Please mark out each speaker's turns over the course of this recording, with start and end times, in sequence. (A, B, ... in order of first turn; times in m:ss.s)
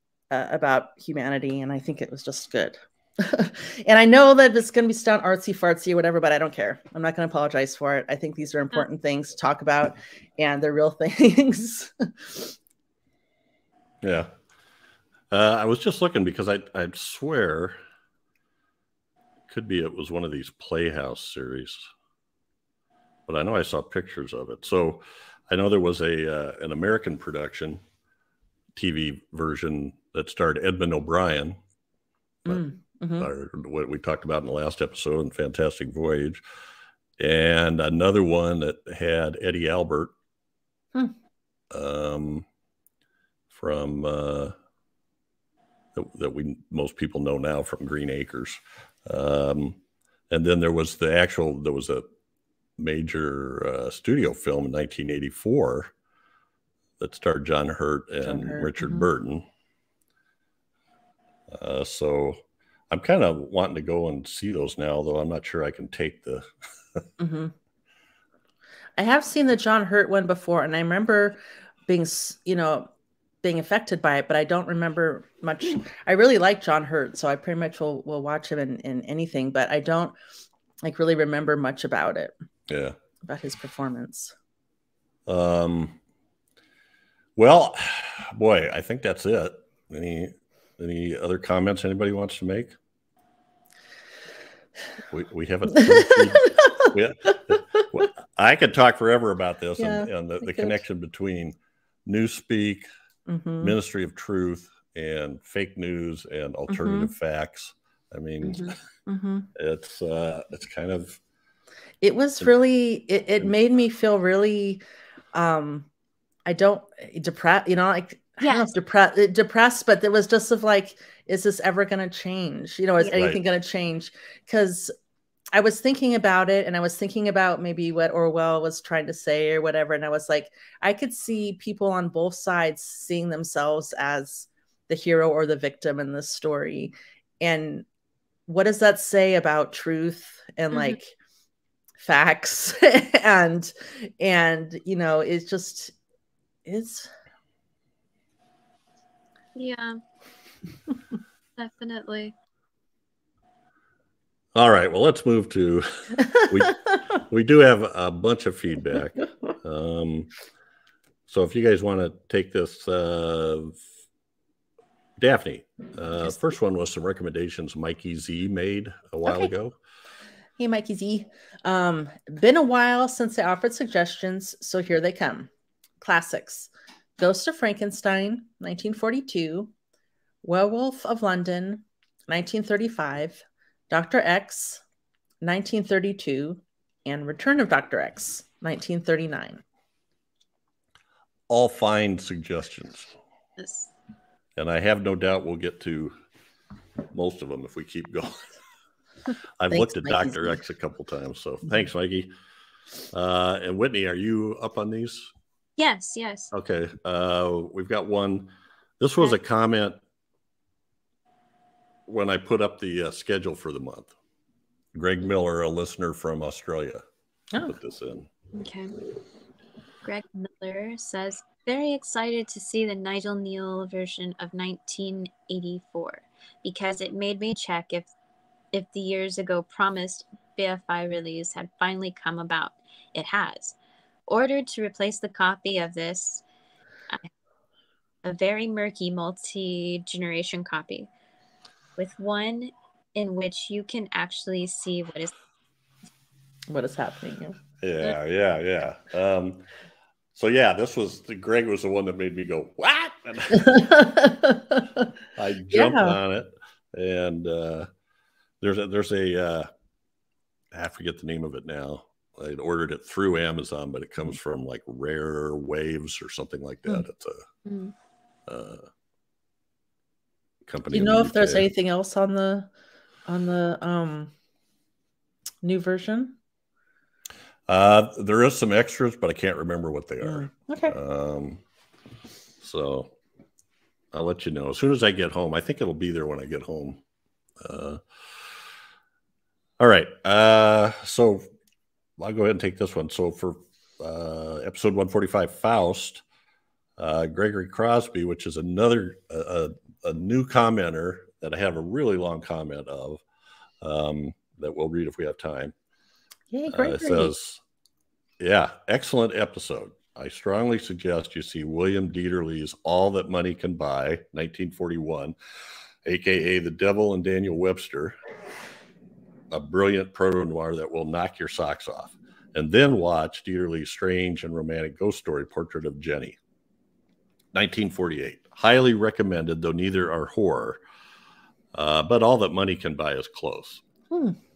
0:00.3-0:12.6 A
0:14.0-0:14.3 B
0:15.3-0:17.8 B
0:19.5-0:21.9 B
0:23.3-0:27.8 B
0:28.7-0:31.6 B
0:32.5-0:33.3 A
0:33.2-0:36.4 B
0:37.2-0:40.1 B
0:41.7-0:42.4 B
0:43.5-0:44.5 B
0:45.9-0:49.8 B
0:50.3-0:52.0 B
0:52.8-0:55.9 B
0:57.0-0:59.4 B
0:58.2-0:59.0 A
1:01.5-1:07.0 B
1:07.2-1:07.5 A
1:09.0-1:12.9 A
1:13.4-1:20.2 A
1:20.8-1:22.3 A
1:22.7-1:23.0 B
1:23.2-1:24.3 A
1:25.3-1:26.0 B
1:27.4-1:32.7 B
1:35.1-1:42.9 B
1:35.8-1:36.7 A
1:39.8-1:40.8 A
1:43.3-1:43.7 A
1:43.6-1:48.8 B
1:46.7-1:47.1 A
1:48.5-1:49.5 A
1:49.5-1:51.2 B
1:52.0-1:54.8 A
1:55.3-1:55.9 A
1:56.4-2:04.9 A
1:58.4-1:58.7 C
2:03.2-2:03.4 B
2:05.5-2:17.8 A
2:18.5-2:21.1 A
2:22.0-2:25.9 A
2:26.6-2:27.1 A
2:29.5-2:30.0 C
2:31.6-2:32.3 C
2:34.5-2:40.3 B
2:41.3-2:43.8 B
2:45.2-2:49.8 B
2:50.6-2:55.5 A
2:56.0-2:59.7 A
3:00.4-3:04.8 A
3:05.4-3:09.6 A
3:11.5-3:13.1 B
3:13.6-3:13.9 C
3:14.6-3:16.1 B
3:17.1-3:18.5 B
3:19.6-3:22.3 B
3:19.7-3:20.6 A
3:23.1-3:25.3 B
3:25.8-3:26.5 C
3:26.5-3:30.0 B
3:32.1-3:34.1 B
3:34.9-3:37.0 B
3:37.6-3:38.3 B
3:38.5-3:38.9 C
3:40.0-3:48.1 C
3:48.7-3:53.7 C
3:54.3-3:56.4 C
3:58.2-4:01.1 C
4:02.0-4:05.3 C
4:06.7-4:07.6 A
4:07.8-4:09.7 B
4:10.3-4:13.8 B
4:13.5-4:15.1 A
4:15.3-4:17.9 B
4:15.7-4:16.2 A
4:18.6-4:19.7 B
4:20.7-4:27.4 B
4:27.6-4:27.9 C
4:28.5-4:28.9 B
4:30.7-4:31.7 B
4:30.9-4:32.7 A
4:33.3-4:34.3 A
4:35.6-4:36.4 A
4:37.7-4:41.6 B
4:40.2-4:41.0 A
4:42.6-4:43.1 B
4:44.1-4:47.0 B
4:47.6-4:48.4 B
4:49.8-4:51.4 B
4:52.2-4:56.2 B
4:57.0-5:03.2 B
5:03.8-5:05.7 B
5:06.5-5:07.3 A
5:06.7-5:07.6 B
5:08.4-5:15.3 B
5:16.0-5:18.2 B
5:19.5-5:26.4 B
5:27.5-5:30.8 B
5:31.7-5:33.8 B
5:34.1-5:34.4 A